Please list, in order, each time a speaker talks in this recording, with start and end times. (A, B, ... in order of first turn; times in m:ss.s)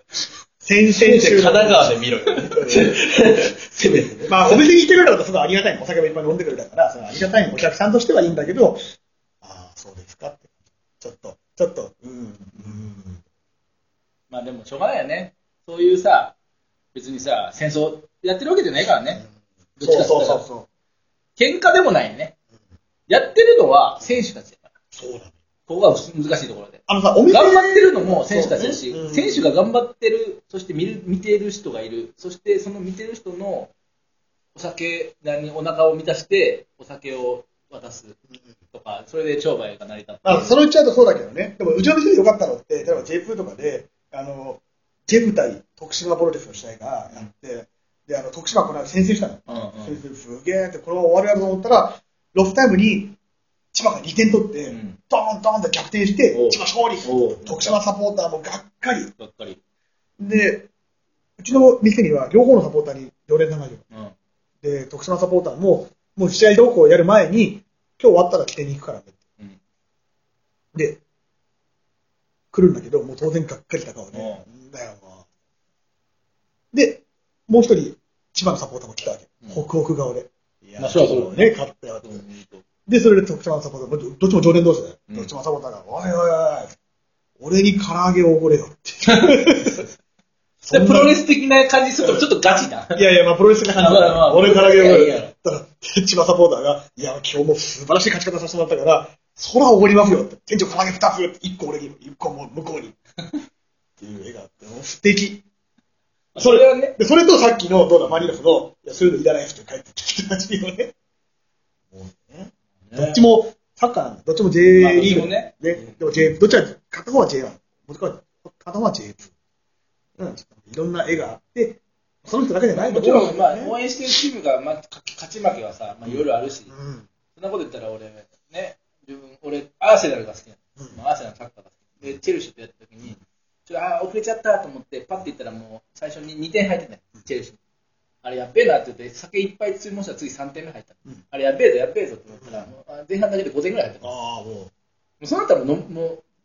0:00.6-0:03.0 A
0:00.9-0:04.6 B
0:04.3-0:08.8 A
0:09.4-0:13.2 A
0:14.3-0:16.3 C
0:16.9-0:19.2 C
0:19.8-0:20.7 A
0:19.8-0:20.4 C
0:21.4-0:22.3 C
0:23.1-0:24.7 C
0:24.9-0:25.3 A
0:25.7-0:33.7 C
0:26.9-0:29.5 A
0:34.6-0:38.2 C
0:38.7-0:40.6 C
0:40.2-0:53.2 A
0:49.5-0:50.0 C
0:53.7-0:59.1 A
0:54.7-0:55.0 C
0:56.3-0:57.8 C
0:59.2-0:59.6 C
1:00.2-1:00.7 A
1:01.4-1:03.9 A
1:04.6-1:09.2 A
1:10.7-1:11.0 A
1:12.5-1:15.2 A
1:14.1-1:14.4 C
1:16.7-1:22.2 A
1:20.8-1:21.5 C
1:22.0-1:22.6 C
1:22.9-1:26.7 A
1:27.4-1:29.8 A
1:29.0-1:29.9 C
1:30.6-1:31.2 A
1:30.7-1:33.0 C
1:32.9-1:43.0 A
1:33.8-1:35.3 C
1:44.0-1:45.4 A
1:46.4-1:47.0 C
1:46.4-1:50.9 A
1:51.9-1:59.3 A
1:52.9-1:53.2 C
1:54.8-1:55.5 C
2:00.2-2:03.8 A
2:02.7-2:06.7 C
2:06.0-2:07.1 A
2:07.4-2:17.6 C
2:18.2-2:24.1 C
2:22.4-2:22.7 A
2:24.0-2:24.7 A
2:25.2-2:26.2 C